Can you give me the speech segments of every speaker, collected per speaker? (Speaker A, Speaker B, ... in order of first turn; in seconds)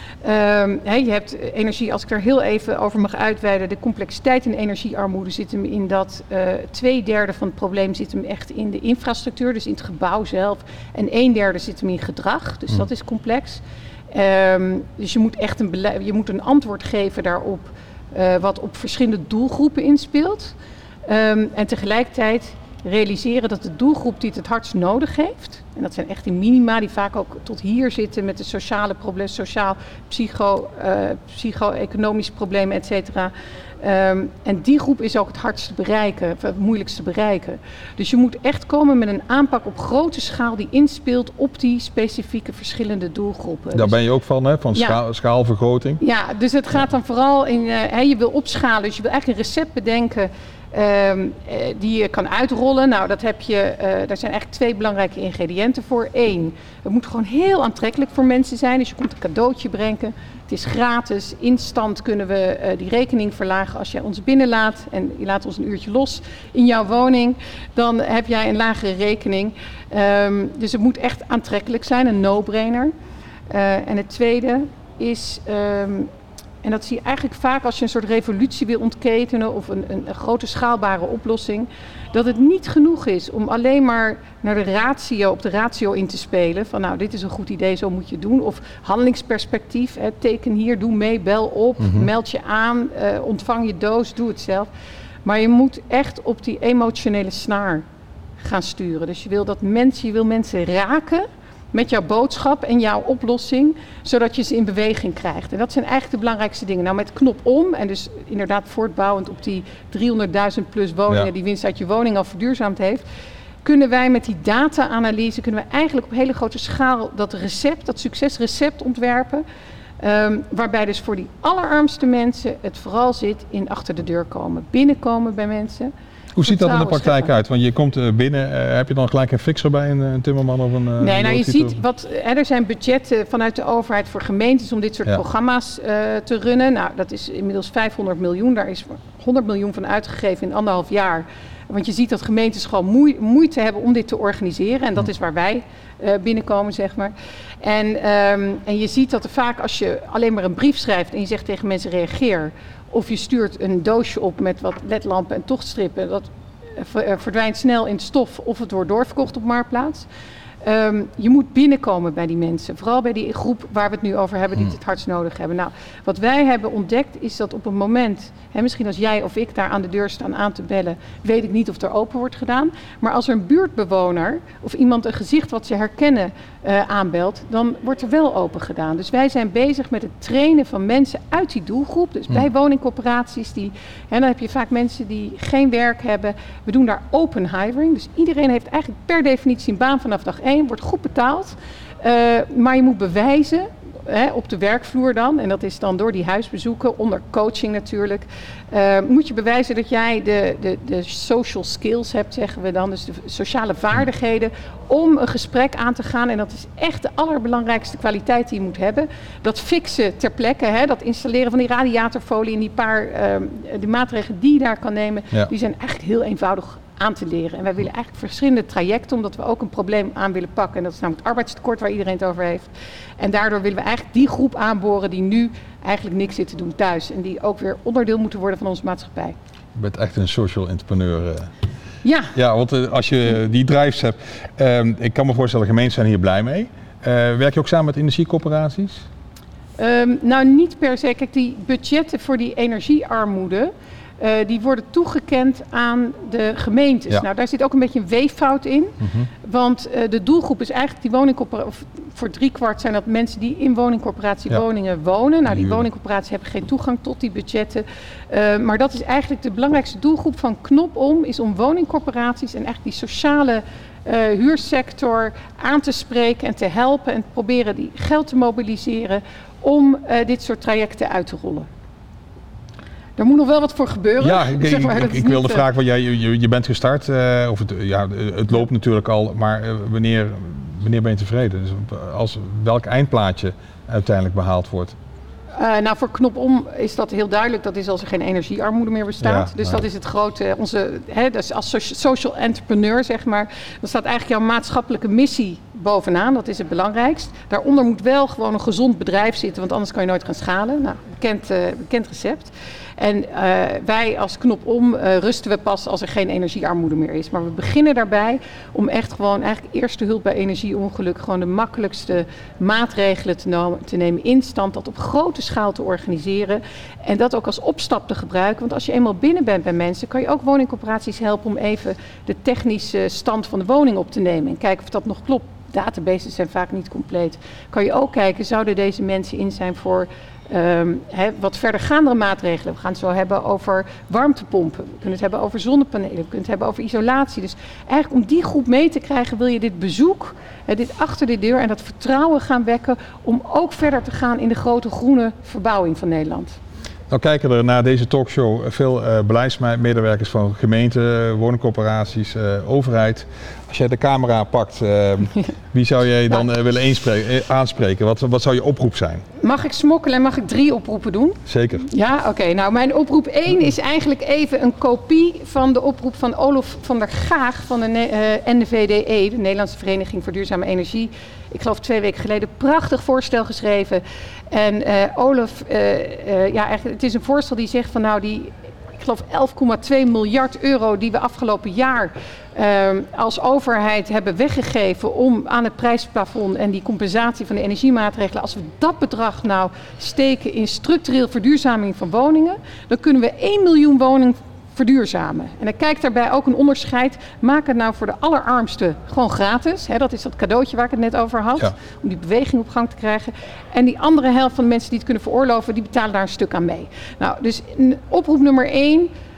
Speaker A: 0.2-20.6, 21.1-44.0, 46.0-72.9, 73.5-76.1, 76.6-94.7, 95.2-97.8, 98.4-113.0, 113.6-119.4, 120.0-125.9, 126.4-127.3, 131.0-160.1, 160.6-229.3, 232.0-232.3, 239.8-271.7, 273.2-275.6, 285.6-346.6, 359.4-409.1
Speaker B: 43.7-46.0, 126.3-131.8, 229.7-231.5, 232.3-239.1, 249.0-249.3, 255.5-255.8, 274.2-284.9, 289.2-289.8, 347.1-359.2, 361.4-361.9